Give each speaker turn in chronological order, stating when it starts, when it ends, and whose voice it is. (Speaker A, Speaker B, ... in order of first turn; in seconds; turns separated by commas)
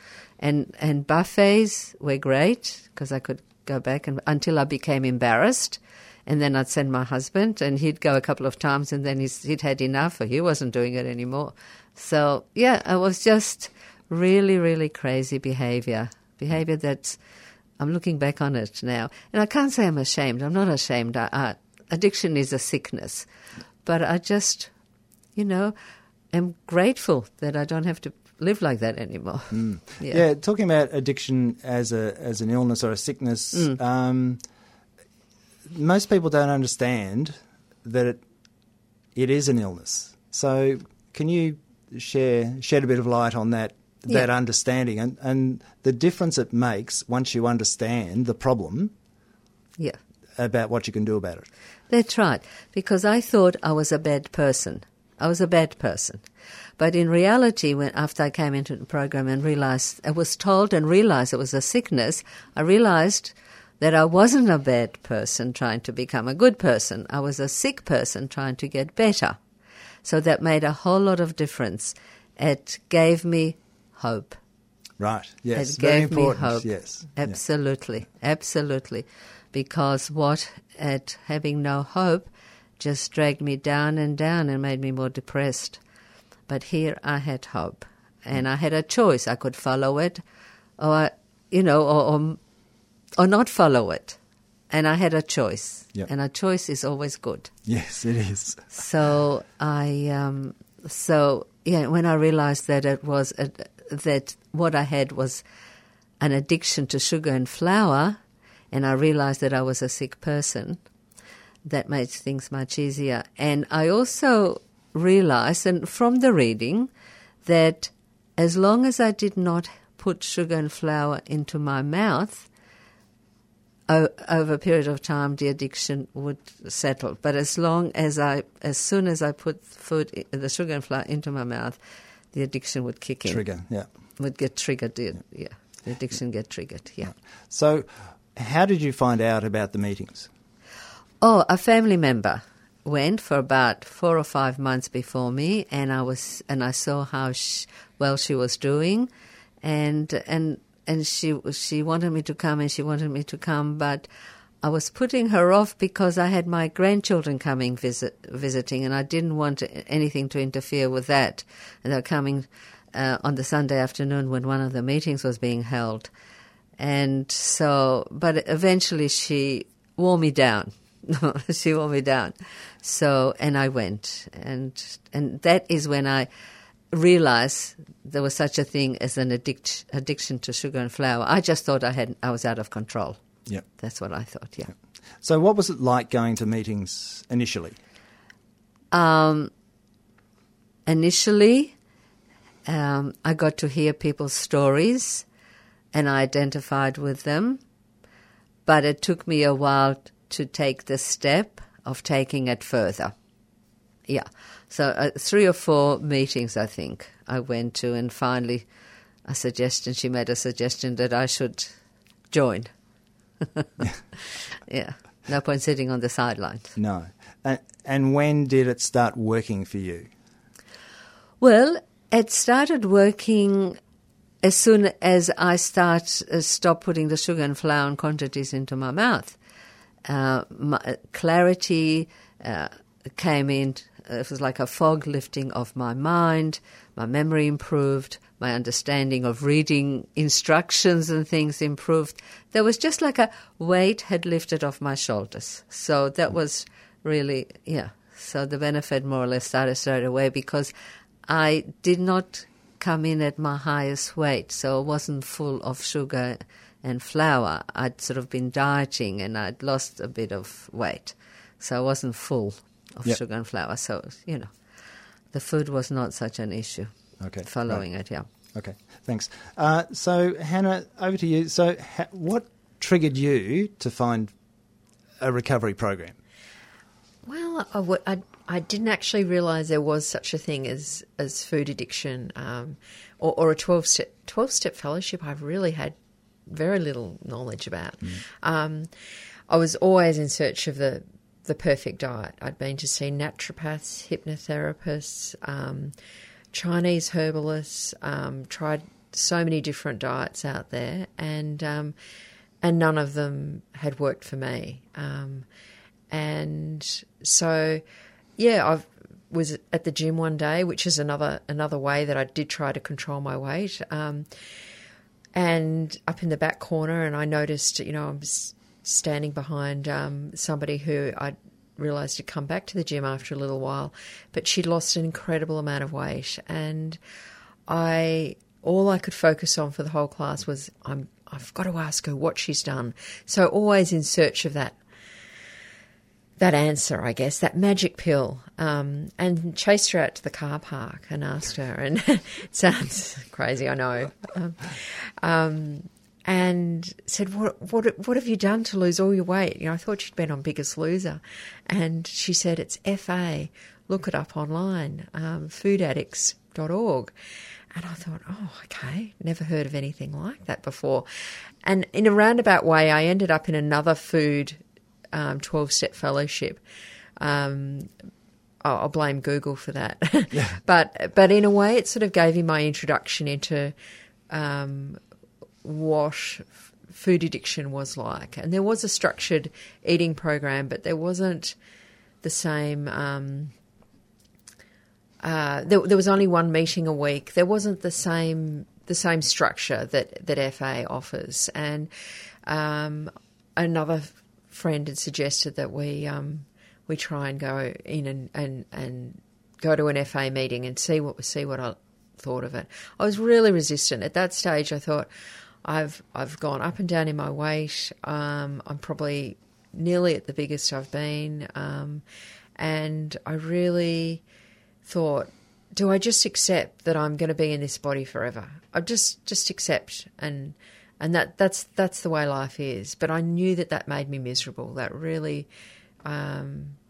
Speaker A: 0.4-17.2, Speaker A: 17.8-23.2, Speaker A: 23.8-24.7, Speaker A: 25.4-25.7, Speaker A: 26.3-30.2, Speaker B: 29.5-34.4, Speaker A: 33.5-33.8, Speaker B: 35.7-38.2, Speaker B: 39.1-48.9, Speaker B: 50.4-51.5, Speaker A: 51.9-56.2, Speaker A: 56.8-69.4, Speaker A: 70.0-74.4, Speaker B: 75.0-77.4, Speaker A: 75.5-85.8, Speaker A: 86.5-90.2, Speaker A: 90.8-92.4, Speaker A: 93.2-94.2, Speaker A: 94.7-97.5, Speaker B: 97.7-98.7, Speaker A: 98.7-105.4, Speaker A: 106.2-108.2, Speaker A: 108.7-110.8, Speaker A: 111.6-116.9, Speaker A: 117.4-122.5, Speaker A: 123.9-131.8, Speaker A: 132.3-133.5, Speaker B: 133.2-133.9, Speaker A: 134.2-137.1, Speaker B: 137.0-140.3, Speaker A: 141.2-149.1, Speaker A: 149.6-154.1, Speaker A: 154.6-166.1, Speaker A: 166.8-176.3, Speaker A: 176.9-183.2, Speaker A: 183.8-184.7, Speaker B: 184.7-187.8, Speaker A: 188.9-189.5, Speaker A: 190.9-191.7, Speaker A: 192.7-195.2, Speaker A: 195.9-197.6, Speaker A: 198.7-203.1, Speaker A: 204.1-208.7, Speaker A: 209.3-211.7, Speaker A: 212.3-212.7, Speaker A: 213.4-213.7, Speaker A: 214.7-216.7, Speaker B: 216.8-220.1, Speaker A: 221.4-223.8, Speaker A: 224.4-229.4, Speaker A: 230.1-250.7, Speaker A: 251.3-264.6, Speaker A: 265.3-268.3, Speaker B: 267.2-267.9, Speaker B: 268.5-274.3, Speaker B: 275.2-276.2, Speaker C: 277.2-285.9, Speaker C: 286.5-288.9, Speaker C: 289.5-295.9, Speaker C: 296.5-301.9, Speaker C: 302.6-305.5, Speaker C: 306.1-307.8, Speaker C: 308.4-314.3, Speaker C: 315.3-327.0, Speaker C: 327.7-334.8, Speaker C: 336.4-357.1, Speaker C: 357.7-361.1, Speaker C: 361.6-364.6, Speaker C: 365.1-366.6, Speaker C: 367.2-367.9, Speaker C: 368.6-373.7, Speaker B: 370.3-370.6, Speaker C: 374.3-375.0, Speaker C: 375.6-381.6, Speaker C: 382.2-383.5, Speaker C: 385.2-391.9, Speaker C: 392.4-405.1, Speaker C: 405.6-412.0, Speaker C: 412.6-414.2, Speaker C: 414.8-425.5, Speaker C: 426.0-426.8